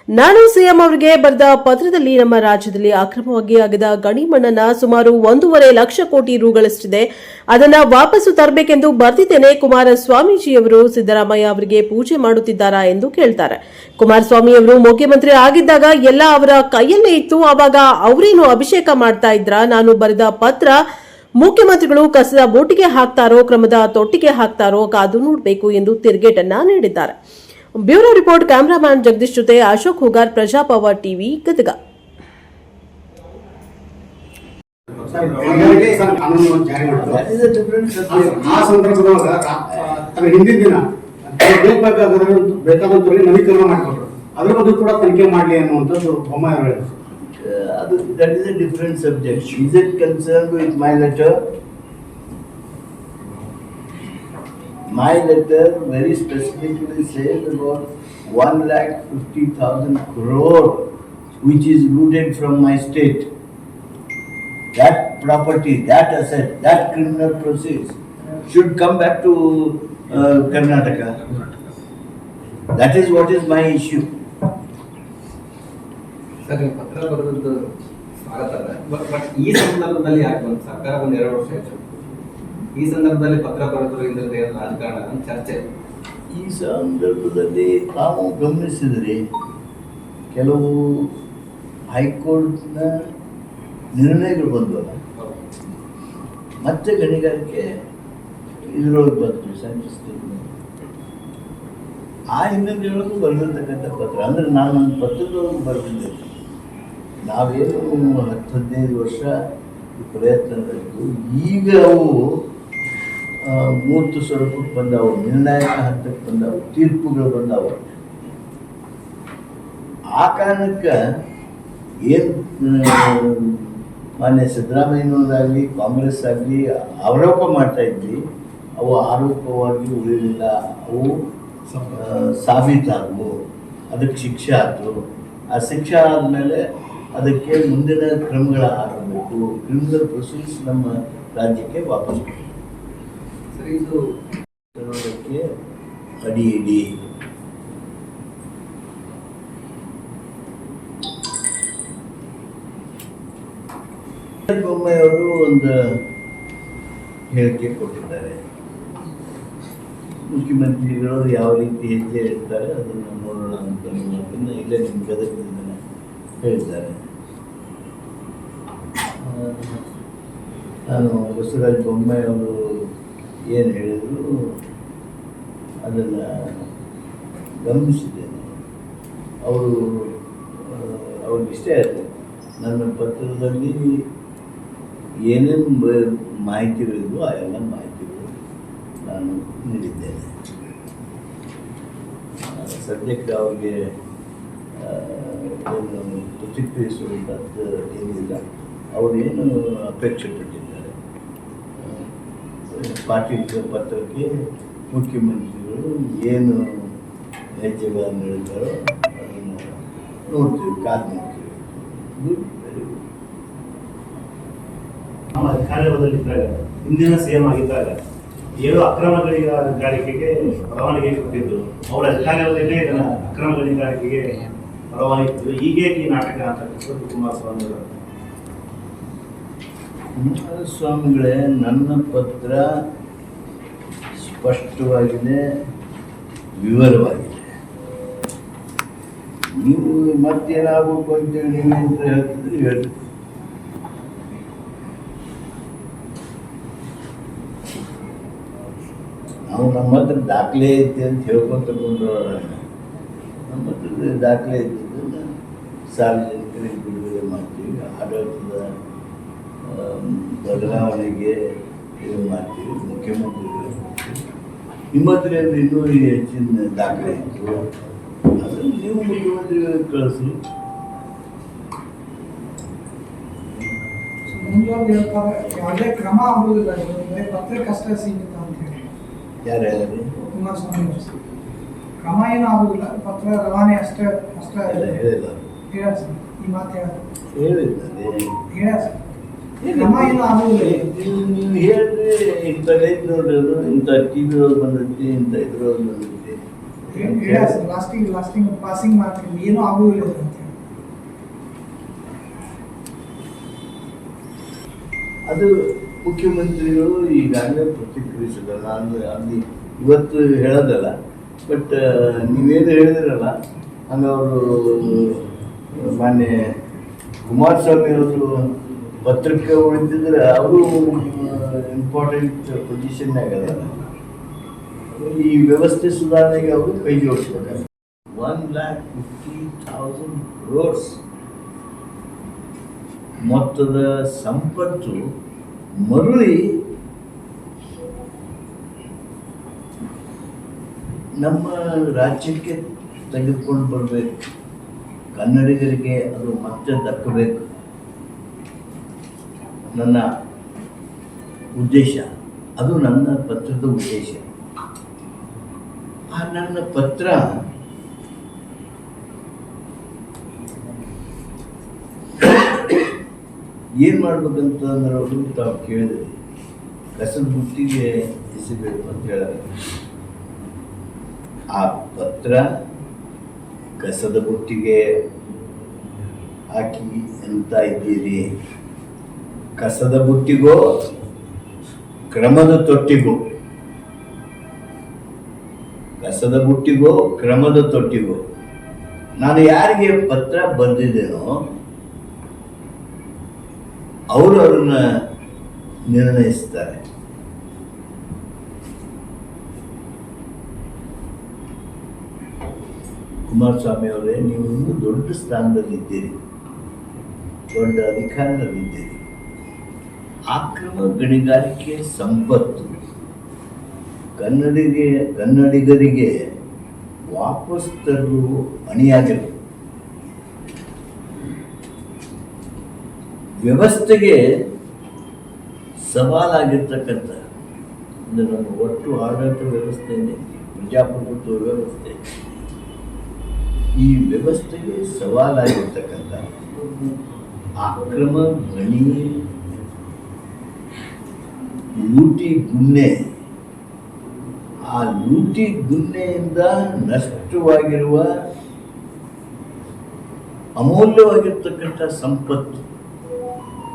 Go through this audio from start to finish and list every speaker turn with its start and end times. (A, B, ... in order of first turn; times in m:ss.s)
0:00.2-0:20.8 A
0:21.4-0:27.2 A
0:27.8-0:31.8 A
0:35.0-0:37.2 B
0:35.4-0:35.9 C
0:37.0-0:38.8 D
0:38.1-0:46.9 B
0:47.4-0:51.4 D
0:54.9-1:00.9 D
1:01.4-1:03.3 D
1:04.7-1:11.2 D
1:12.7-1:14.1 D
1:16.4-1:21.8 C
1:22.8-1:25.7 C
1:26.3-1:29.2 D
1:30.3-1:31.1 D
1:31.9-1:32.9 D
1:34.0-1:35.0 D
1:36.6-1:37.7 D
1:38.7-1:40.5 D
1:42.3-1:46.3 D
1:47.3-1:49.3 D
1:50.0-1:52.4 D
1:53.4-1:58.0 D
2:00.2-2:00.9 D
2:02.0-2:08.2 D
2:08.8-2:11.2 D
2:11.9-2:13.3 D
2:13.9-2:15.0 D
2:15.5-2:16.6 D
2:17.1-2:22.4 D
2:23.5-2:24.0 C
2:24.8-2:25.5 D
2:26.2-2:26.9 D
2:34.5-2:36.0 D
2:37.3-2:38.4 D
2:40.3-2:45.8 D
2:46.4-2:47.0 D
2:49.2-2:49.8 D
2:50.9-2:52.9 D
2:53.5-2:54.6 D
2:55.8-2:56.7 D
2:57.6-2:58.5 D
2:59.4-3:04.1 D
3:05.3-3:08.3 D
3:09.0-3:10.3 D
3:12.4-3:13.9 D
3:14.8-3:20.9 D
3:21.8-3:22.1 D
3:22.7-3:24.3 D
3:24.9-3:27.0 D
3:27.6-3:29.7 D
3:30.3-3:33.0 D
3:35.4-3:38.0 E
3:38.6-3:44.3 E
3:44.9-3:47.9 E
3:50.2-3:52.7 D
3:54.2-3:55.4 D
3:56.6-3:57.4 D
3:59.6-4:02.9 D
4:09.5-4:12.6 D
4:13.5-4:15.3 D
4:15.9-4:18.7 D
4:19.6-4:21.4 D
4:22.0-4:24.2 D
4:24.9-4:27.7 D
4:28.4-4:30.4 D
4:34.3-4:38.8 F
4:39.4-4:40.2 D
4:40.3-4:41.1 F
4:42.0-4:44.9 F
4:44.7-4:45.5 D
4:45.7-4:47.0 F
4:47.3-4:48.3 D
4:48.5-4:49.0 F
4:49.6-4:57.6 D
4:49.7-4:50.9 F
4:56.9-5:00.5 F
5:05.3-5:10.9 D
5:11.5-5:13.3 D
5:13.9-5:16.4 D
5:17.3-5:23.8 D
5:24.9-5:27.6 D
5:28.1-5:31.0 D
5:33.2-5:35.1 D
5:35.8-5:36.6 D
5:41.2-5:44.1 D
5:45.2-5:47.4 D
5:49.7-5:50.0 D
5:51.6-5:52.1 D
5:52.6-5:54.2 D
5:56.1-5:57.3 D
6:03.8-6:06.2 D
6:07.0-6:09.5 D
6:11.5-6:12.5 D
6:13.8-6:14.9 D
6:16.5-6:18.3 D
6:19.6-6:20.9 D
6:22.1-6:23.2 D
6:26.0-6:28.2 D
6:29.2-6:31.4 D
6:34.1-6:34.8 D
6:35.9-6:36.8 D
6:43.3-6:46.2 D
6:47.5-6:49.0 D
6:50.3-6:52.8 D
6:54.2-6:56.1 D
6:57.1-6:59.4 D
7:03.4-7:04.2 D
7:05.8-7:07.2 D
7:08.1-7:12.2 D
7:13.8-7:16.4 D
7:17.6-7:19.3 D
7:21.7-7:23.0 D
7:24.6-7:28.1 D
7:30.6-7:32.6 D